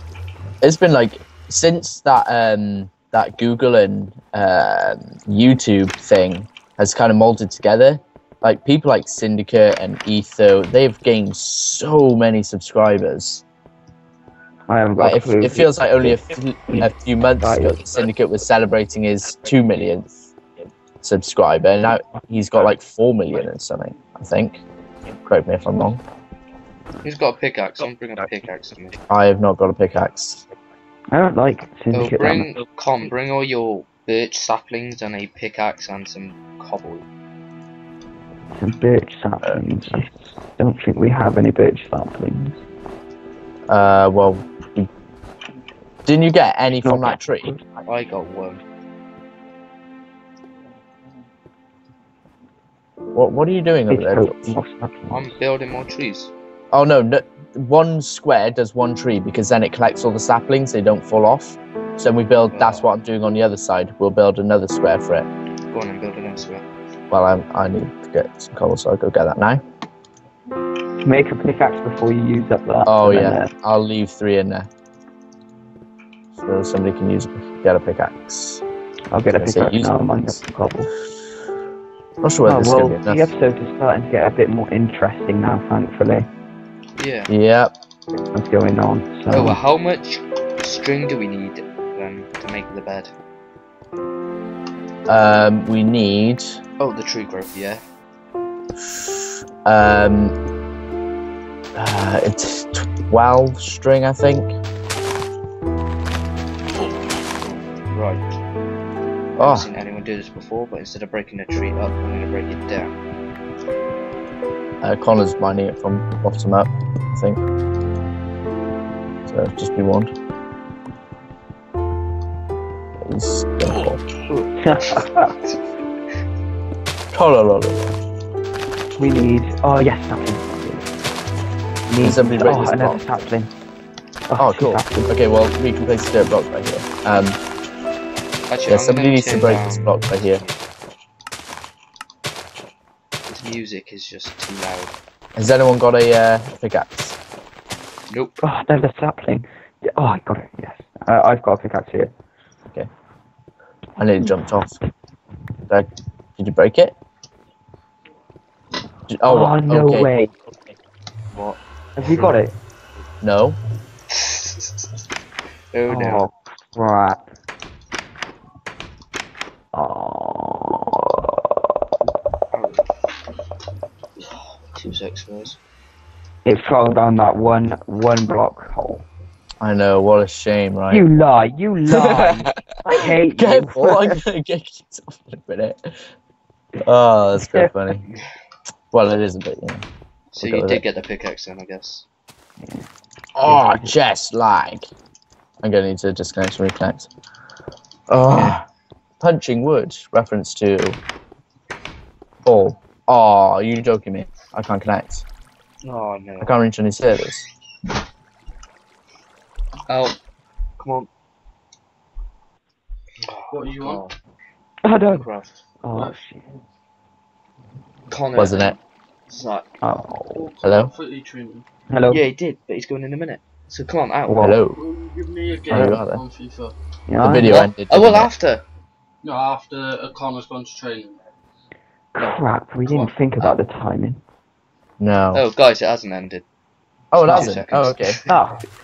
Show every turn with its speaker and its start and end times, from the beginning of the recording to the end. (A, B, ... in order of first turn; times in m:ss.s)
0:00.6-0:13.4 A
0:14.7-0:17.8 B
0:15.0-0:20.3 A
0:21.0-0:24.6 A
0:25.2-0:26.0 A
0:27.0-0:29.0 C
0:29.1-0:30.4 A
0:31.1-0:32.5 B
0:31.9-0:37.1 C
0:38.6-0:42.6 B
0:39.4-0:40.1 A
0:43.7-0:44.9 A
0:46.0-0:47.5 A
0:46.7-0:47.7 B
0:47.8-0:48.6 C
0:53.1-0:54.6 A
0:53.9-0:55.4 B
0:55.1-0:56.3 C
0:56.7-1:05.3 A
1:02.5-1:02.9 C
1:05.7-1:06.7 C
1:07.1-1:09.6 A
1:11.0-1:13.5 B
1:12.9-1:14.7 A
1:16.4-1:18.6 A
1:19.1-1:20.9 B
1:19.3-1:20.4 A
1:22.2-1:23.3 A
1:22.4-1:26.3 B
1:27.0-1:27.3 C
1:27.3-1:27.7 A
1:28.3-1:29.6 B
1:29.3-1:33.1 C
1:35.1-1:36.6 A
1:36.8-1:37.8 C
1:39.6-1:40.4 A
1:41.8-1:44.5 A
1:47.9-1:48.2 C
1:49.4-1:49.7 A
1:49.4-1:53.0 C
1:54.8-1:57.4 A
1:59.3-2:00.1 A
2:03.0-2:04.0 A
2:04.3-2:05.6 C
2:04.6-2:05.3 B
2:07.1-2:08.0 A
2:09.0-2:10.9 B
2:11.9-2:13.5 B
2:12.0-2:13.0 A
2:14.3-2:15.1 B
2:14.4-2:17.4 A
2:18.5-2:20.6 C
2:18.7-2:20.4 A
2:23.3-2:24.9 C
2:25.4-2:27.2 A
2:28.1-2:28.4 C
2:28.4-2:32.1 B
2:34.0-2:34.8 A
2:35.7-2:37.0 A
2:39.1-2:40.1 A
2:39.2-2:40.4 B
2:41.3-2:42.3 C
2:42.0-2:42.5 B
2:43.2-2:43.6 A
2:44.1-2:44.9 C
2:45.7-2:46.3 C
2:45.9-2:47.2 B
2:49.7-2:51.3 B
2:52.5-2:52.8 C
2:54.2-2:55.6 C
2:56.4-2:59.1 B
2:59.6-3:01.0 A
3:00.9-3:04.2 B
3:03.4-3:06.1 A
3:06.8-3:08.0 A
3:07.4-3:07.7 B
3:08.9-3:09.8 A
3:10.3-3:12.1 C
3:10.4-3:10.8 A
3:12.6-3:12.9 B
3:13.4-3:14.9 A
3:13.4-3:14.0 B
3:15.6-3:17.1 A
3:18.1-3:18.6 A
3:18.3-3:18.6 C
3:19.2-3:21.0 A
3:22.4-3:25.2 A
3:25.8-3:26.6 C
3:26.4-3:27.5 A
3:29.9-3:30.2 C
3:30.8-3:31.1 C
3:33.2-3:34.1 C
3:33.5-3:34.0 D
3:34.8-3:35.3 B
3:35.0-3:35.6 C
3:35.8-3:36.4 B
3:38.1-3:38.8 C
3:38.4-3:38.8 A
3:39.3-3:39.8 C
3:39.8-3:40.5 B
3:40.3-3:41.7 D
3:40.6-3:40.9 A
3:41.9-3:42.2 B
3:42.1-3:44.6 C
3:44.3-3:44.6 B
3:44.4-3:44.8 A
3:44.8-3:46.7 D
3:45.7-3:46.2 A
3:47.1-3:47.7 B
3:47.2-3:48.3 A
3:47.4-3:48.6 C
3:49.2-3:51.2 D
3:52.2-3:54.2 B
3:52.9-3:53.6 C
3:55.0-3:55.4 A
3:55.3-3:56.4 C
3:57.1-3:58.2 A
3:57.2-3:58.3 C
3:57.2-3:57.6 B
3:58.3-3:58.6 B